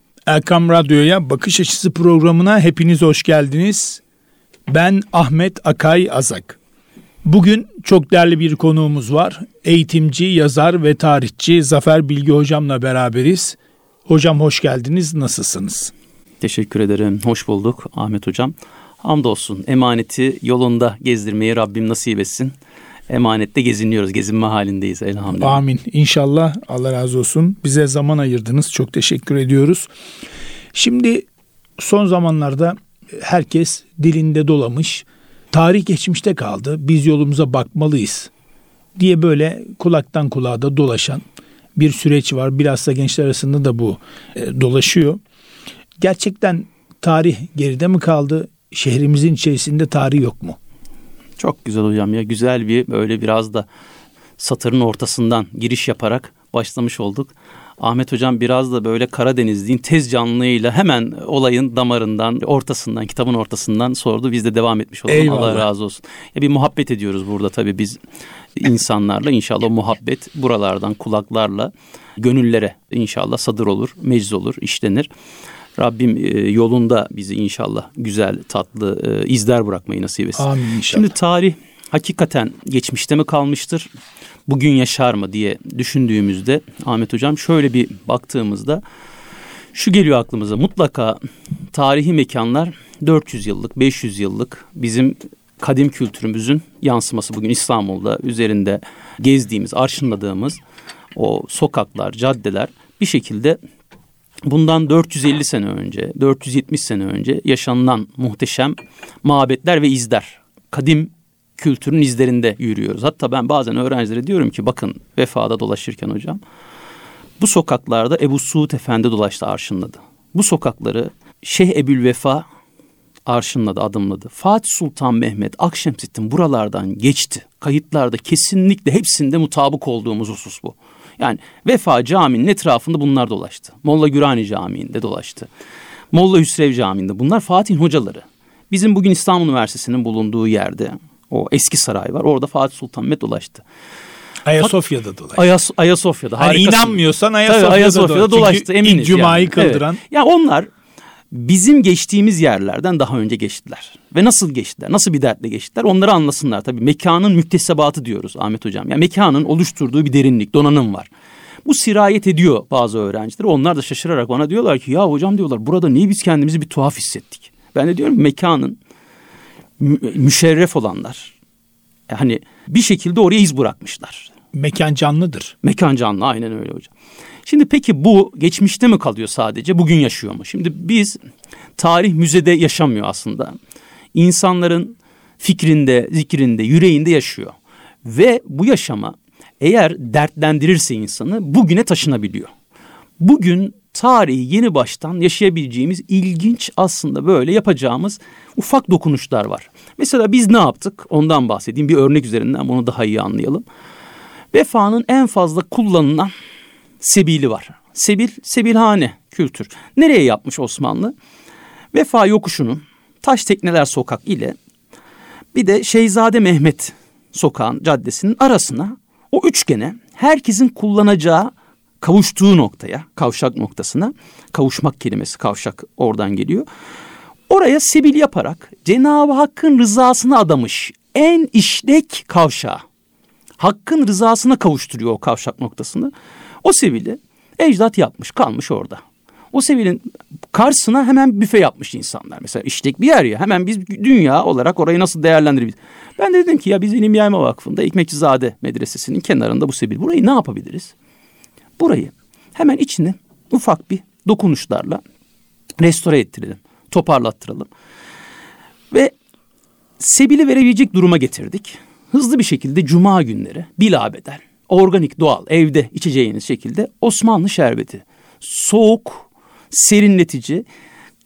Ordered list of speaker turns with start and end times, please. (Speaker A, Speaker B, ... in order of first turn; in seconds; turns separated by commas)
Speaker A: 0.3-4.0, Speaker A: 4.7-6.6, Speaker A: 7.2-15.9, Speaker B: 16.4-22.5, Speaker B: 23.1-25.6, Speaker A: 25.4-29.9, Speaker A: 30.7-31.3, Speaker A: 31.8-38.3, Speaker A: 39.0-41.2, Speaker A: 41.8-45.2, Speaker A: 46.0-50.6, Speaker B: 51.4-53.7, Speaker B: 54.4-68.0, Speaker A: 65.1-65.7, Speaker B: 68.6-75.1, Speaker B: 75.8-83.9, Speaker A: 80.4-81.1, Speaker B: 84.5-88.8, Speaker B: 89.7-91.2, Speaker B: 91.7-100.6, Speaker B: 101.2-103.6, Speaker B: 104.5-116.4, Speaker B: 117.4-122.5, Speaker B: 123.3-135.5, Speaker B: 136.1-143.7, Speaker A: 144.4-145.4, Speaker B: 145.3-150.7, Speaker A: 146.4-150.0, Speaker B: 151.3-161.1, Speaker B: 161.7-168.8, Speaker B: 169.8-171.3, Speaker B: 172.1-174.3, Speaker A: 174.5-175.6, Speaker B: 175.6-176.9, Speaker B: 177.4-181.2, Speaker B: 181.8-183.6, Speaker B: 184.2-192.5, Speaker B: 193.2-203.6, Speaker B: 204.5-206.3, Speaker B: 207.0-211.1, Speaker B: 211.9-214.6, Speaker B: 215.5-226.7, Speaker B: 227.5-232.8, Speaker B: 233.6-236.1, Speaker B: 236.6-239.0, Speaker B: 239.5-250.9, Speaker B: 251.8-255.0, Speaker B: 255.8-257.7, Speaker B: 260.0-270.7